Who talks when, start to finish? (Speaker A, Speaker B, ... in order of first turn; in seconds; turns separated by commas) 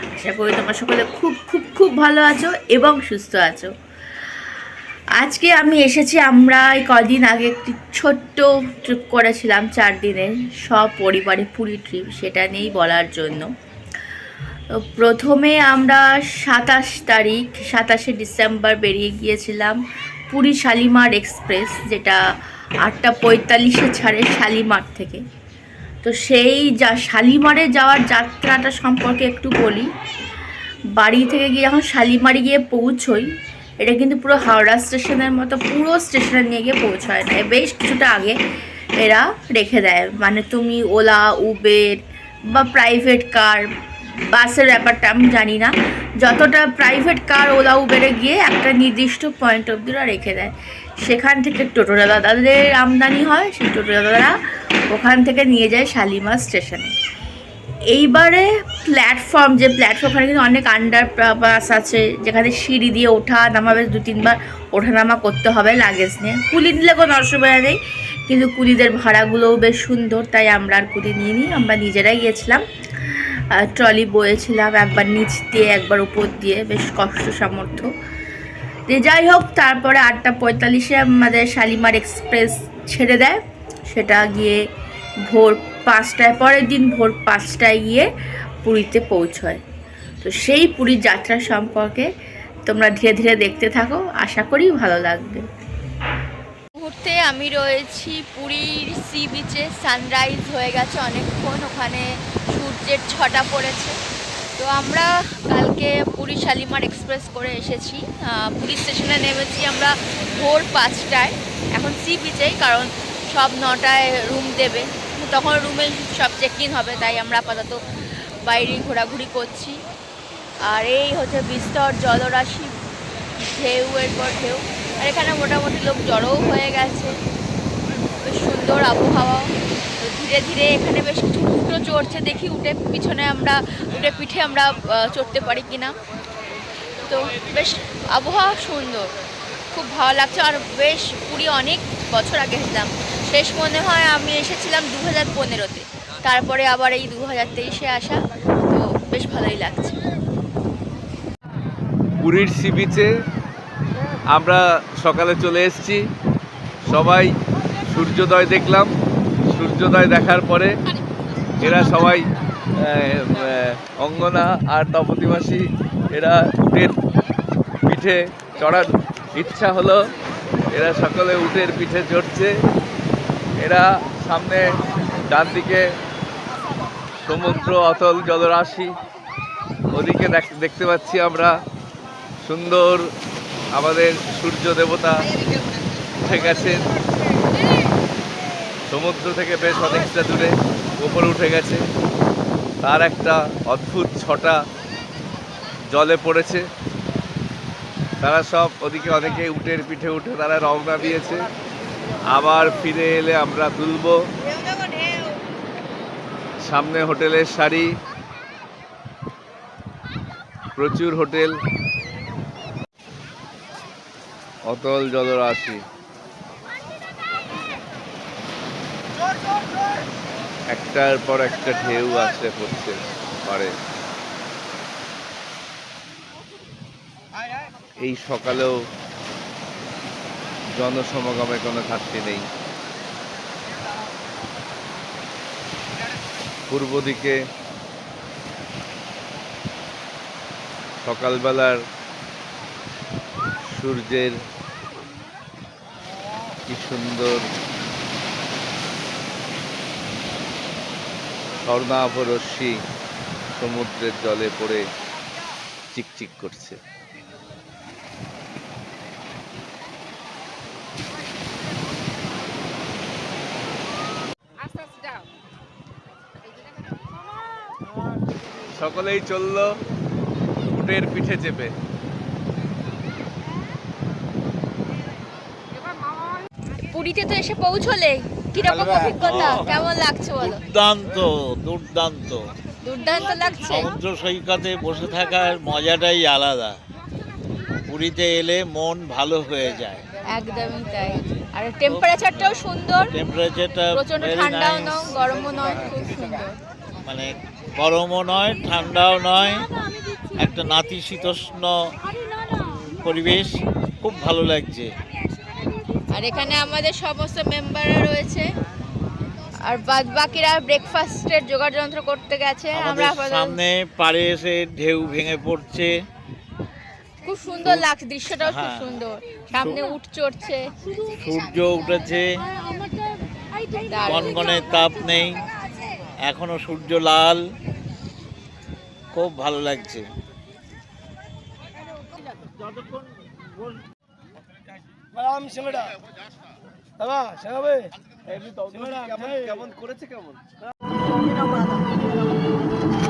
Speaker A: 0.2-3.7, Speaker A: 5.2-13.5, Speaker A: 14.9-19.8, Speaker A: 20.3-22.2, Speaker A: 22.8-25.2, Speaker A: 26.0-29.9, Speaker A: 31.0-33.3, Speaker A: 33.8-38.4, Speaker A: 39.0-42.0, Speaker A: 42.5-43.6, Speaker A: 44.3-54.3, Speaker A: 54.9-56.9, Speaker A: 57.9-67.8, Speaker A: 68.3-72.6, Speaker A: 73.6-77.9, Speaker A: 78.9-83.4, Speaker A: 83.9-84.6, Speaker A: 85.3-88.1, Speaker A: 88.6-89.6, Speaker A: 90.2-92.1, Speaker A: 92.7-95.4, Speaker A: 96.8-104.0, Speaker A: 104.6-117.8, Speaker A: 118.5-119.8, Speaker A: 120.7-122.7, Speaker A: 123.4-127.2, Speaker A: 128.2-135.9, Speaker A: 137.1-139.1, Speaker A: 139.7-150.0, Speaker B: 152.2-153.1, Speaker B: 154.3-156.0, Speaker B: 156.9-157.3, Speaker B: 157.9-158.9, Speaker B: 159.5-160.8, Speaker B: 161.6-166.9, Speaker B: 167.9-170.0, Speaker B: 170.7-172.5, Speaker B: 173.6-174.6, Speaker B: 175.3-175.8, Speaker B: 177.2-178.9, Speaker B: 179.9-181.5, Speaker B: 182.4-183.1, Speaker B: 183.8-185.3, Speaker B: 186.2-186.9, Speaker B: 188.9-191.8, Speaker B: 192.8-194.6, Speaker B: 195.9-196.7, Speaker B: 198.2-201.5, Speaker B: 202.3-204.2, Speaker B: 206.6-207.9, Speaker B: 210.8-211.5, Speaker B: 214.7-215.8, Speaker B: 220.7-223.7, Speaker B: 228.0-228.7, Speaker B: 230.8-232.4, Speaker B: 236.7-237.4, Speaker B: 241.0-241.8, Speaker B: 243.7-244.3, Speaker B: 246.7-247.4, Speaker B: 251.6-252.7, Speaker B: 253.6-254.8, Speaker B: 255.9-256.8, Speaker B: 268.8-269.7, Speaker B: 270.7-271.7, Speaker A: 276.8-280.6, Speaker C: 279.2-279.7, Speaker C: 280.4-282.4, Speaker A: 282.8-283.9, Speaker C: 283.7-286.8, Speaker C: 287.9-290.1, Speaker A: 290.3-293.1, Speaker C: 291.9-292.6, Speaker C: 293.1-295.1, Speaker A: 293.9-296.6, Speaker C: 295.7-296.0, Speaker C: 297.1-299.7, Speaker C: 300.4-301.8, Speaker C: 302.5-304.9, Speaker A: 306.1-308.5, Speaker A: 309.6-313.6, Speaker C: 312.7-315.9, Speaker A: 317.2-320.6, Speaker C: 318.4-318.9, Speaker C: 321.1-322.2, Speaker A: 323.8-324.6, Speaker C: 324.1-325.4, Speaker C: 326.3-327.4, Speaker C: 329.1-330.1, Speaker C: 332.6-333.8